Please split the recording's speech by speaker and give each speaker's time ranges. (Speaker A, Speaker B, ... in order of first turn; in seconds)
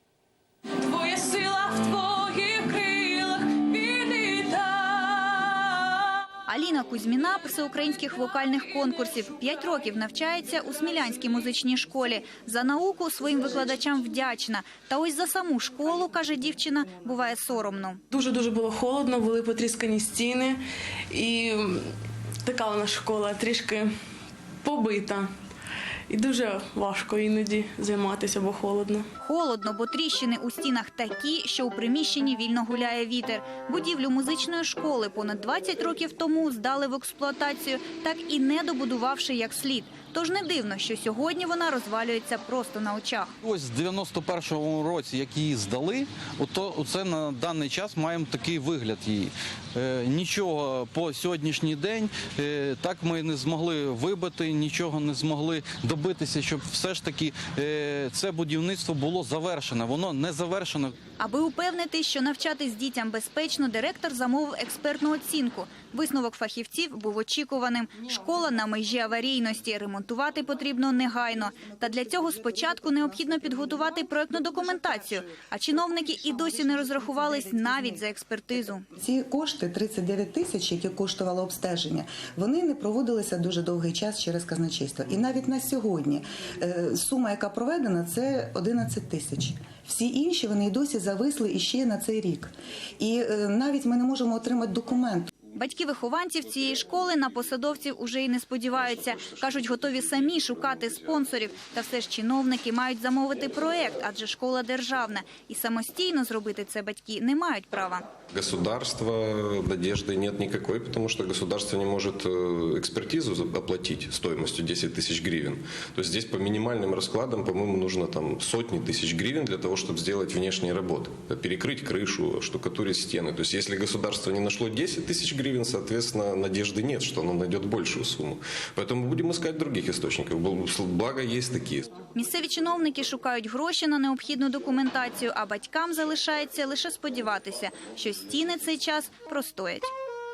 Speaker A: 0.8-5.6, 18.1-20.6, 21.1-21.9, 22.4-23.9, 24.6-25.3, 26.1-29.0
Speaker B: 6.5-18.0, 29.2-43.3, 61.2-78.8, 95.5-108.0, 132.1-139.9
Speaker C: 43.4-60.9
Speaker D: 71.5-78.0, 78.9-95.3
Speaker E: 108.3-131.9